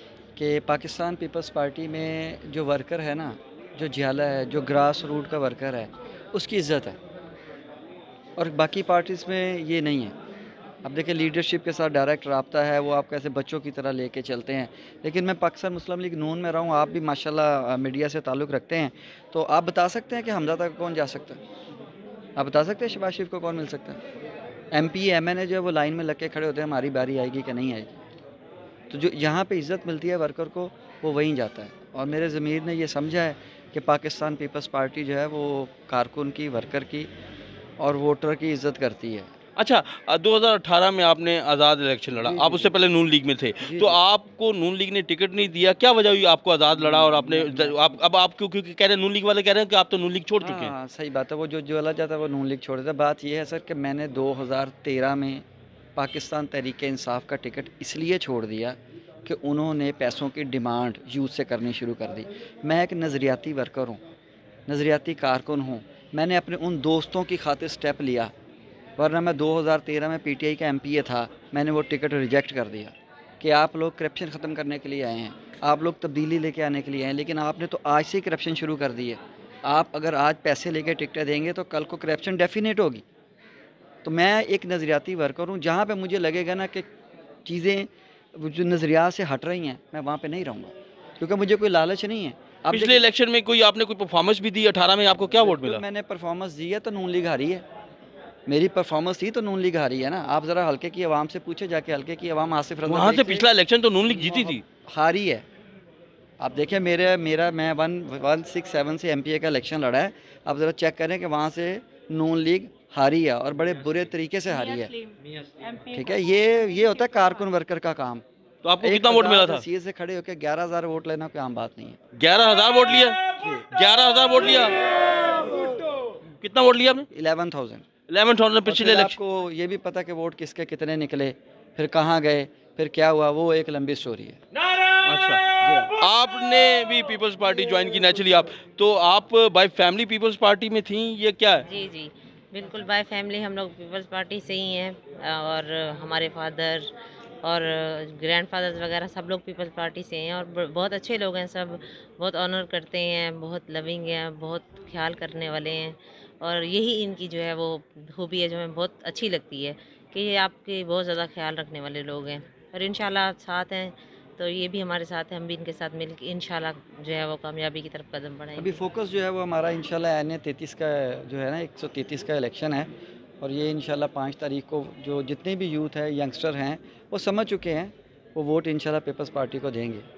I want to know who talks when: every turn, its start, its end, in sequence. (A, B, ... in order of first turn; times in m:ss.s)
0:00.4-0:07.0 A
0:08.4-0:10.1 A
0:10.8-0:21.4 A
0:22.4-0:24.0 A
0:24.7-0:28.0 A
0:28.9-0:37.1 A
0:37.8-0:39.3 A
0:39.6-0:50.7 B
0:42.2-0:42.7 A
0:43.6-0:44.0 A
0:46.7-0:47.8 A
0:50.4-0:55.4 A
0:56.0-1:04.0 A
1:04.7-1:08.3 A
1:09.0-1:23.0 A
1:24.0-1:26.9 A
1:27.5-1:33.1 A
1:32.7-1:35.8 B
1:35.4-1:37.6 A
1:38.5-1:43.5 A
1:42.9-1:44.6 B
1:44.1-1:45.4 A
1:46.4-1:55.0 A
1:55.9-1:58.2 A
1:58.6-1:59.6 B
1:58.8-2:02.0 A
2:02.2-2:04.8 B
2:06.4-2:07.1 B
2:07.1-2:07.9 A
2:08.1-2:09.2 B
2:08.6-2:14.4 A
2:15.0-2:15.4 B
2:15.6-2:15.9 A
2:16.0-2:21.7 B
2:21.7-2:26.9 C
2:27.4-2:48.8 C
2:48.6-3:00.1 A